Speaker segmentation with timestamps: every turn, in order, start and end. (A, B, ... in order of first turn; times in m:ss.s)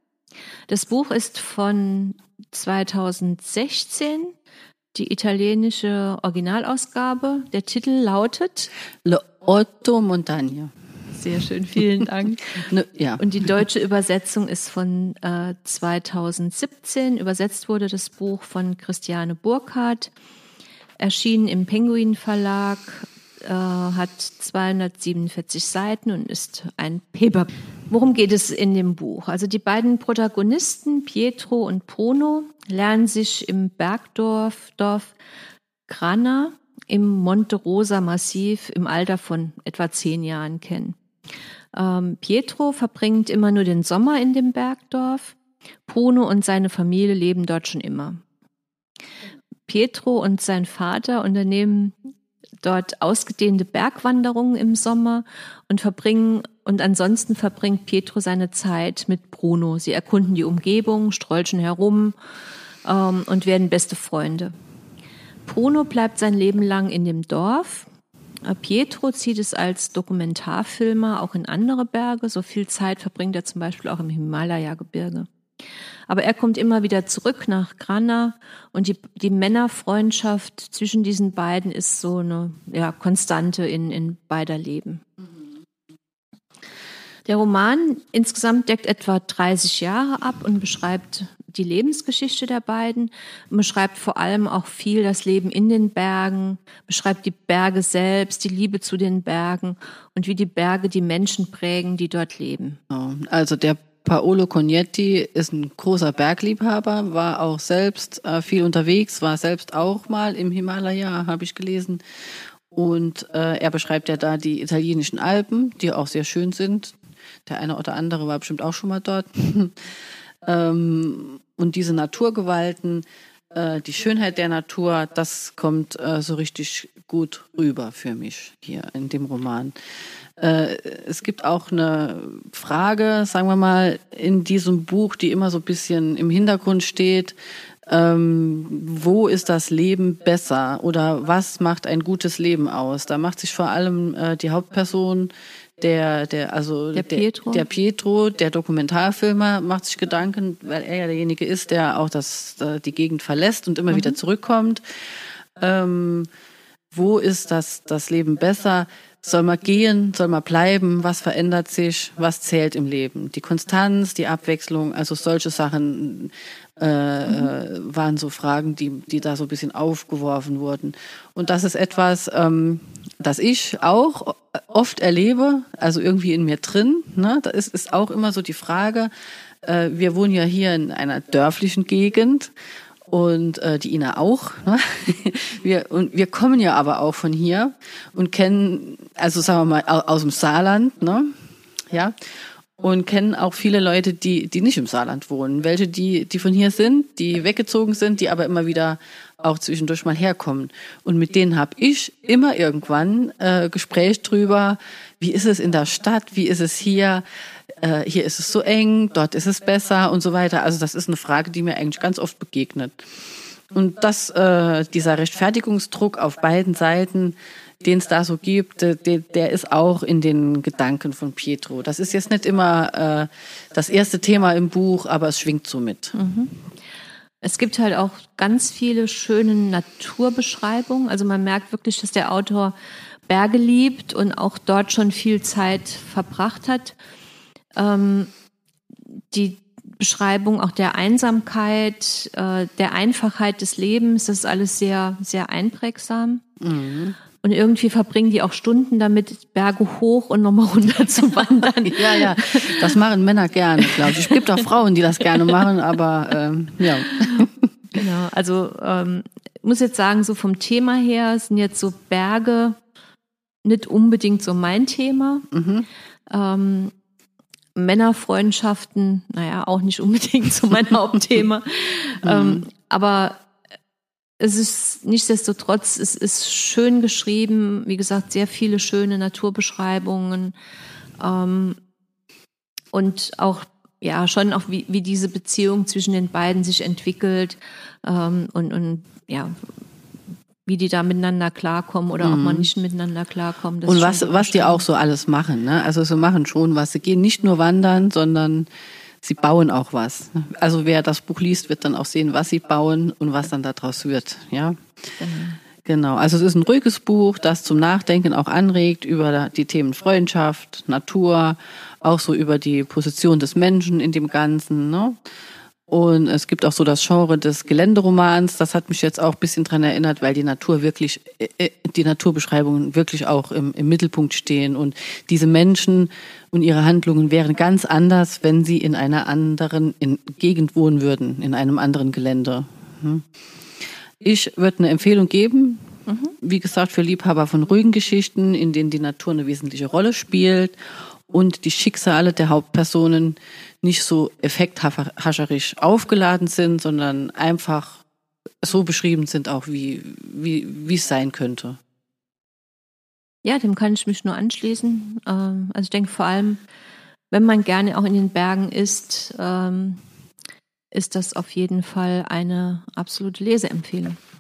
0:00.7-0:04.3 A
0:04.9-0:08.7 A
0:09.0-0:10.7 B
0:11.1-0:12.7 A
0:12.6-0:13.6 B
0:13.2-0:20.1 A
0:21.0-0:35.1 A
0:35.9-0:41.0 A
0:41.7-0:45.4 A
0:45.9-0:48.2 A
0:49.7-0:52.0 A
0:52.6-1:02.2 A
1:02.8-1:04.5 A
1:05.5-1:07.9 A
1:08.4-1:15.3 A
1:16.1-1:25.1 A
1:27.3-1:42.8 A
1:42.9-1:52.0 B
1:52.7-1:59.8 B
2:00.4-2:09.8 B
2:10.4-2:17.4 B
2:17.9-2:34.8 B
2:27.0-2:27.6 A
2:33.9-2:34.2 A
2:35.6-2:36.3 B
2:36.9-2:59.1 B
2:59.6-3:02.5 B
3:03.1-3:11.3 B
3:11.9-3:12.2 B
3:12.8-3:27.2 B
3:27.8-3:33.1 B
3:33.7-3:46.2 B
3:46.2-3:46.5 A
3:47.4-3:52.7 A
3:53.3-3:57.0 A
3:57.8-3:58.3 A
3:59.3-4:06.4 A
4:06.6-4:07.2 B
4:07.4-4:12.9 A
4:11.9-4:17.7 B
4:13.8-4:14.3 A
4:18.0-4:22.8 A
4:23.6-4:25.5 A
4:25.5-4:25.9 B
4:26.3-4:26.9 A
4:27.8-4:33.5 A
4:32.2-4:32.7 B
4:34.4-4:40.5 A
4:41.2-4:41.8 A
4:42.9-4:49.6 A
4:50.6-4:54.8 A
4:52.2-4:52.7 B
4:53.9-4:58.7 B
4:59.2-5:04.8 B
5:05.2-5:05.6 A
5:05.8-5:15.2 B
5:15.9-5:33.3 B
5:34.2-5:40.8 B
5:36.1-5:36.4 A
5:41.3-5:48.0 B
5:48.6-5:51.8 B
5:53.4-5:56.6 A
5:57.3-6:00.0 A
6:00.9-6:04.2 A